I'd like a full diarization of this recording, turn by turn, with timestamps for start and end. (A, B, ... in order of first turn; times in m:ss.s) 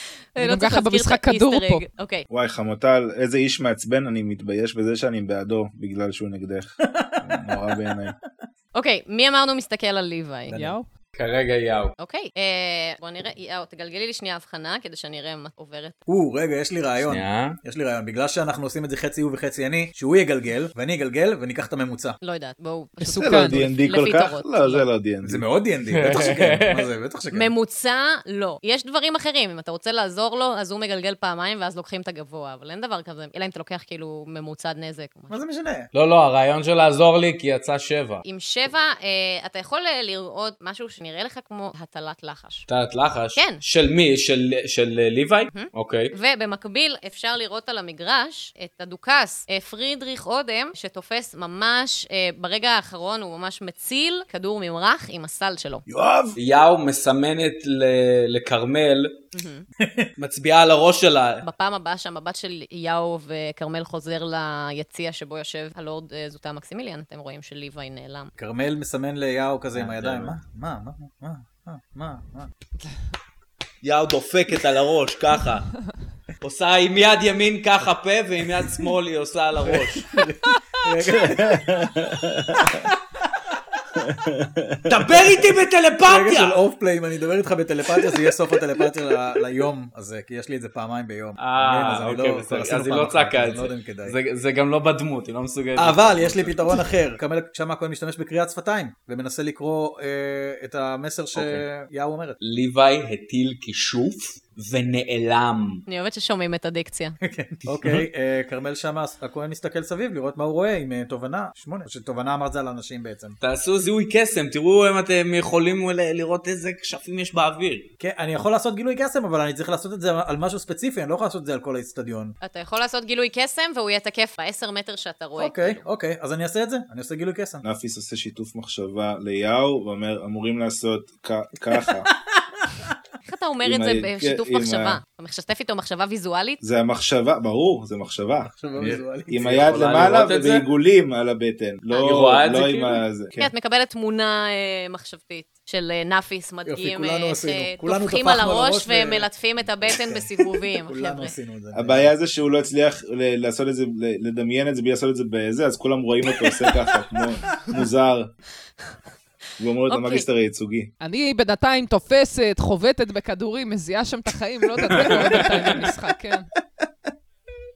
0:00.3-0:02.2 A
0:00.4-0:01.8 B
0:02.3-0:08.2 C
0:07.0-0:07.9 D
0:08.7-0:10.5 A
0:10.5-0:10.7 D
0:10.5-0:10.9 B
0:11.1-0:11.9 E
0:12.0-0:16.0 A
0:16.0-0:22.2 D
0:17.0-0:17.6 E
0:22.2-0:24.9 A
0:23.0-0:23.6 B
0:23.1-0:25.4 C
0:25.2-0:27.5 D
0:26.0-0:26.9 E
0:27.3-0:35.4 A
0:35.3-0:35.9 D
0:35.9-0:38.2 E
0:38.2-0:42.6 A
0:42.7-0:46.1 E
0:43.3-0:43.6 A
0:45.5-0:55.8 A
0:55.9-0:56.3 D
0:56.4-0:59.1 E
0:59.3-0:59.6 A
0:59.8-1:00.1 D
1:00.2-1:01.4 E
1:01.4-1:08.3 A
1:08.4-1:12.5 D
1:09.7-1:10.4 E
1:13.8-1:15.7 E
1:16.4-1:20.2 E
1:19.6-1:21.9 D
1:21.1-1:22.8 C
1:22.5-1:23.4 D
1:24.0-1:25.0 C
1:24.9-1:26.6 E
1:25.1-1:25.4 D
1:26.0-1:34.2 D
1:31.4-1:36.9 E
1:35.8-1:42.4 D
1:41.3-1:41.6 E
1:42.4-1:45.8 E
1:45.9-1:47.2 A
1:47.2-1:53.4 D
1:47.7-1:48.0 E
1:53.4-1:57.9 E
1:58.0-2:02.3 D
2:02.4-2:05.8 A
2:05.4-2:07.6 D
2:07.6-2:12.1 C
2:12.1-2:12.9 D
2:13.2-2:16.6 A
2:13.6-2:15.0 C
2:16.6-2:23.5 C
2:18.4-2:20.0 D
2:19.6-2:20.6 E
2:22.0-2:23.0 E
2:23.4-2:31.3 A
2:26.6-2:29.3 D
2:29.9-2:32.1 D
2:31.7-2:38.3 C
2:39.6-2:40.9 C
2:39.9-2:40.2 A
2:41.0-2:46.5 B